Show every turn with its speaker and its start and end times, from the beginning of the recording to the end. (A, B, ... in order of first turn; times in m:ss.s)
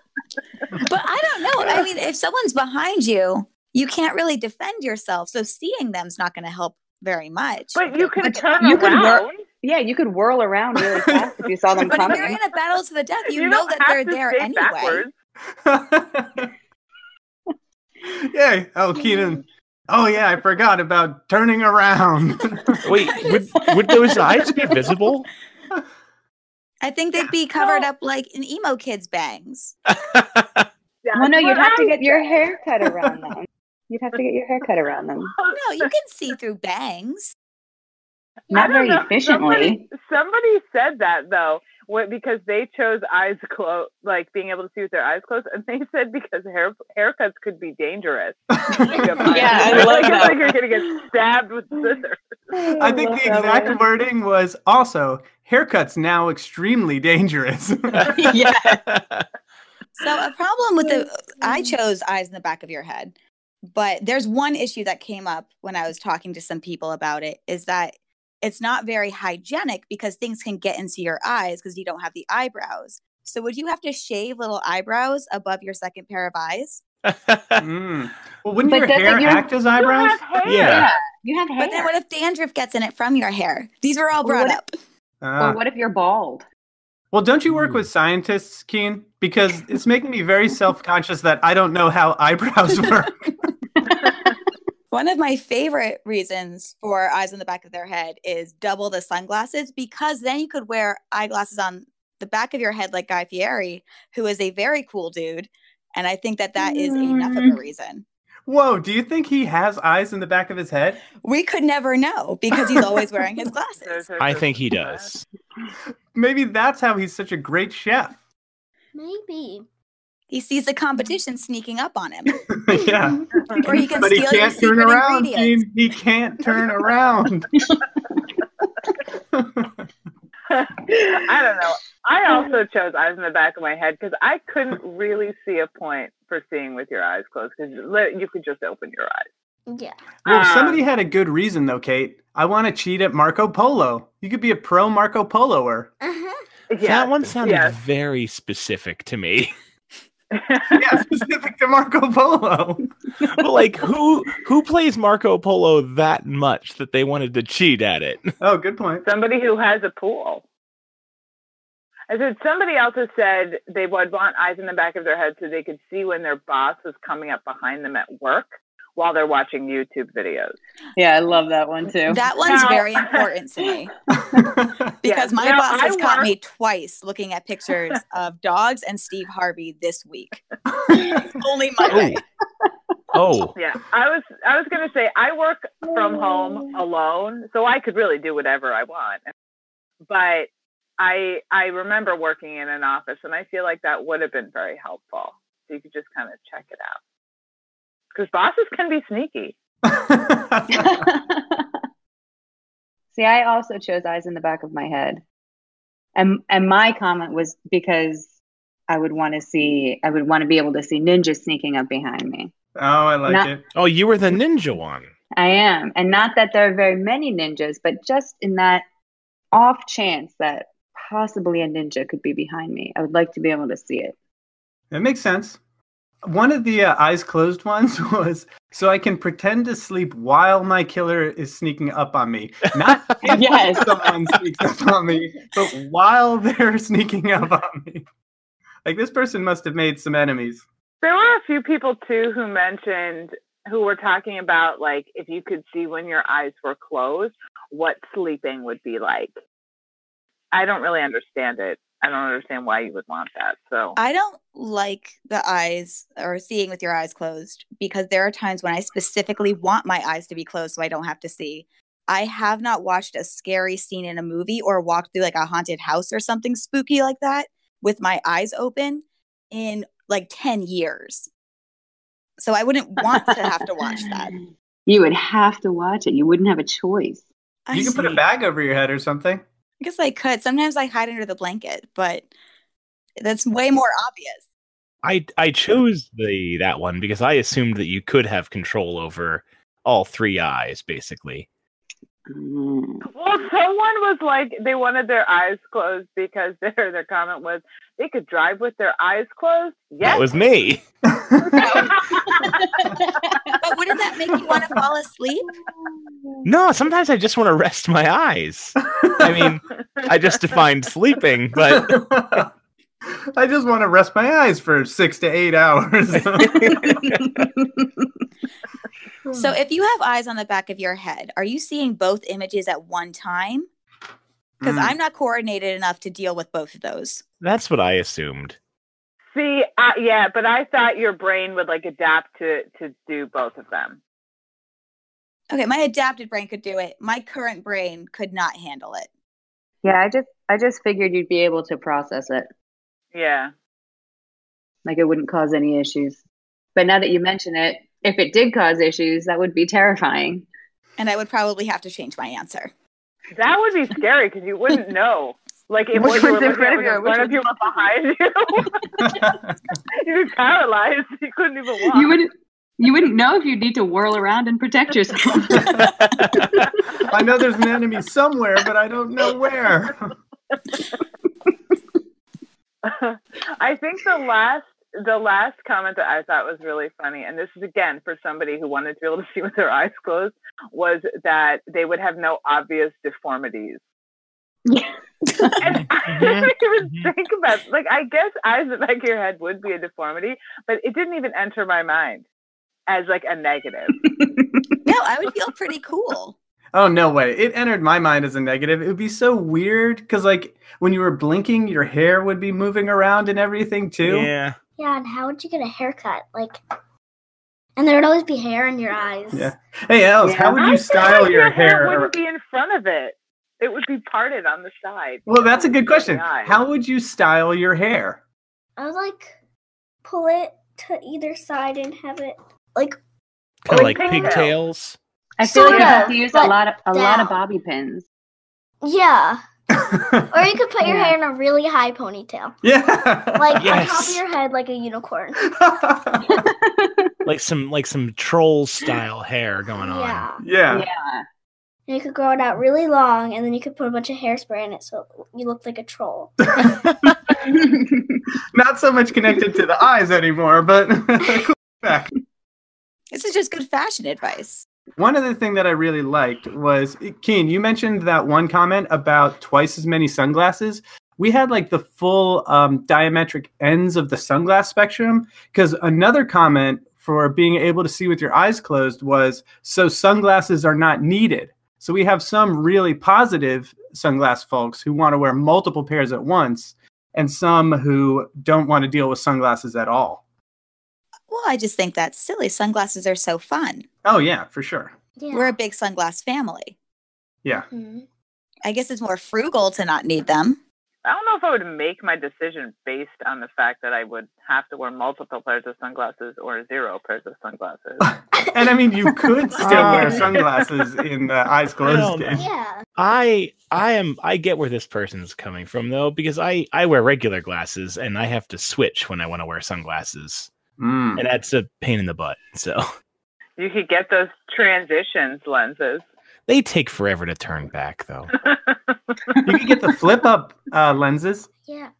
0:00.8-0:08.6 A
0:07.7-0:09.4 B
0:08.6-0:12.4 C
0:11.8-0:15.0 A
0:13.3-0:15.1 B
0:15.6-0:16.5 D
0:18.0-0:22.8 D
0:22.8-0:25.3 E
0:23.0-0:23.4 A
0:23.5-0:24.2 C
0:26.8-0:29.8 A
0:29.9-0:30.6 E
0:31.0-0:32.5 B
0:31.2-0:35.3 C
0:35.4-0:35.9 B
0:35.5-0:37.3 A
0:38.5-0:39.9 C
0:38.5-0:52.2 B
0:48.5-0:50.2 D
0:49.3-0:50.6 C
0:52.5-0:53.8 C
0:52.7-0:58.4 D
0:58.2-0:59.2 E
0:58.2-0:58.8 C
1:00.0-1:03.1 A
1:00.8-1:01.7 C
1:03.7-1:16.8 A
1:17.0-1:17.6 E
1:17.6-1:20.2 D
1:18.7-1:19.5 C
1:19.8-1:20.9 B
1:20.4-1:20.9 E
1:20.6-1:21.9 C
1:21.6-1:24.7 A
1:24.2-1:24.6 C
1:25.2-1:25.6 D
1:25.4-1:26.4 C
1:27.1-1:33.5 D
1:27.5-1:27.8 E
1:33.9-1:34.3 C
1:34.9-1:48.0 A
1:46.6-1:47.6 C
1:48.5-1:51.0 D
1:51.2-1:54.0 A
1:53.8-1:55.1 B
1:54.2-1:55.2 E
1:56.1-1:58.2 D
1:58.9-1:59.6 F
2:00.3-2:02.5 A
2:02.5-2:07.6 D
2:02.8-2:03.3 F
2:03.6-2:05.6 A
2:07.6-2:07.8 C
2:09.3-2:09.8 D
2:10.5-2:19.2 B
2:11.0-2:11.3 C
2:19.7-2:20.0 F
2:20.2-2:25.9 D
2:20.2-2:20.8 B
2:26.0-2:26.4 F
2:26.7-2:27.8 B
2:26.8-2:29.5 E
2:30.3-2:30.8 B
2:30.7-2:32.9 D
2:33.3-2:38.3 E
2:38.4-2:39.0 D
2:39.0-2:40.4 B
2:42.1-2:50.5 B
2:51.0-2:52.2 C
2:52.1-2:53.9 A
2:52.4-2:53.2 B
2:54.2-2:54.9 D
2:55.0-3:02.2 A
2:55.0-2:56.3 B
3:00.8-3:01.3 D
3:01.9-3:02.2 E
3:03.1-3:03.5 E
3:03.5-3:09.3 B
3:05.8-3:06.8 C
3:10.0-3:17.0 B
3:18.1-3:19.6 B
3:19.8-3:21.1 D
3:20.7-3:21.7 C
3:23.1-3:25.2 C
3:26.2-3:28.3 C
3:28.9-3:32.5 C
3:32.8-3:33.6 D
3:33.2-3:33.5 C
3:33.7-3:35.1 E
3:35.3-3:38.8 C
3:39.5-3:44.1 C
3:44.9-3:45.6 D
3:46.2-3:58.0 D
3:53.2-3:54.0 C
3:58.8-4:00.6 D
4:01.0-4:09.3 B
4:10.5-4:14.0 B
4:14.0-4:31.3 A
4:32.4-4:34.3 A
4:34.0-4:37.2 C
4:37.6-4:38.2 A
4:37.7-4:39.4 D
4:39.8-4:42.3 A
4:43.2-4:44.4 A
4:45.0-4:51.5 E
4:52.3-4:53.1 C
4:53.1-5:00.3 B
5:00.0-5:00.8 E
5:01.1-5:01.8 D
5:01.6-5:03.6 C
5:01.6-5:02.6 B
5:03.6-5:05.4 A
5:05.7-5:06.4 C
5:06.4-5:12.0 E
5:09.0-5:09.5 D
5:11.6-5:12.5 D
5:13.1-5:17.2 D
5:16.2-5:17.3 E
5:16.6-5:18.1 C
5:19.3-5:23.7 A
5:24.6-5:25.0 D
5:24.6-5:27.2 A
5:27.4-5:28.6 E
5:29.3-5:34.0 B
5:35.5-5:39.1 A
5:39.8-5:42.5 C
5:43.1-5:43.5 B
5:44.8-5:46.2 C
5:46.7-5:50.5 C
5:51.0-5:52.7 A
5:53.3-5:59.0 B
5:55.9-5:57.4 C
5:59.0-5:59.5 D
5:59.9-6:02.2 B
6:01.9-6:06.6 C
6:05.5-6:05.9 D
6:07.0-6:10.1 D
6:12.8-6:23.8 B
6:24.7-6:25.6 C
6:25.6-6:32.2 B
6:25.7-6:27.1 E
6:32.9-6:34.0 B
6:34.0-6:34.7 C
6:34.8-6:36.3 A
6:36.7-6:44.3 D
6:44.0-6:44.6 E
6:44.8-6:46.6 F
6:47.8-6:49.5 F
6:49.3-6:52.1 D
6:50.2-6:50.6 C
6:50.6-6:56.6 B
6:55.3-6:58.2 D
6:58.8-6:59.3 F
7:00.0-7:03.0 F
7:03.6-7:05.0 E
7:03.7-7:04.5 B
7:03.8-7:04.4 F
7:05.4-7:08.1 C
7:05.4-7:07.4 F
7:05.7-7:06.0 B
7:08.8-7:09.4 F
7:09.8-7:10.4 D
7:10.3-7:12.6 F
7:10.8-7:11.2 C
7:12.6-7:13.9 D
7:13.4-7:15.5 F
7:13.6-7:14.2 E
7:15.4-7:16.5 D
7:16.3-7:17.1 C
7:17.2-7:20.3 E
7:19.8-7:20.4 F
7:20.4-7:20.9 D
7:20.7-7:21.2 C
7:21.9-7:26.4 F
7:26.5-7:27.1 D
7:27.4-7:28.2 C
7:28.5-7:32.1 D
7:33.1-7:34.6 A
7:35.0-8:00.2 D
8:01.3-8:03.9 A
8:04.0-8:04.9 D
8:05.2-8:05.6 F
8:05.3-8:06.7 A
8:07.5-8:08.0 F
8:08.6-8:10.6 A
8:11.0-8:18.1 B
8:18.0-8:22.4 D
8:19.6-8:20.3 E
8:19.8-8:20.0 F
8:21.8-8:22.4 E
8:22.3-8:22.8 F
8:23.0-8:30.5 E
8:30.8-8:31.2 D
8:31.1-8:32.8 E
8:33.6-8:36.0 B
8:36.5-8:38.3 E
8:38.4-8:38.9 B
8:39.4-8:41.5 D
8:41.6-8:41.9 F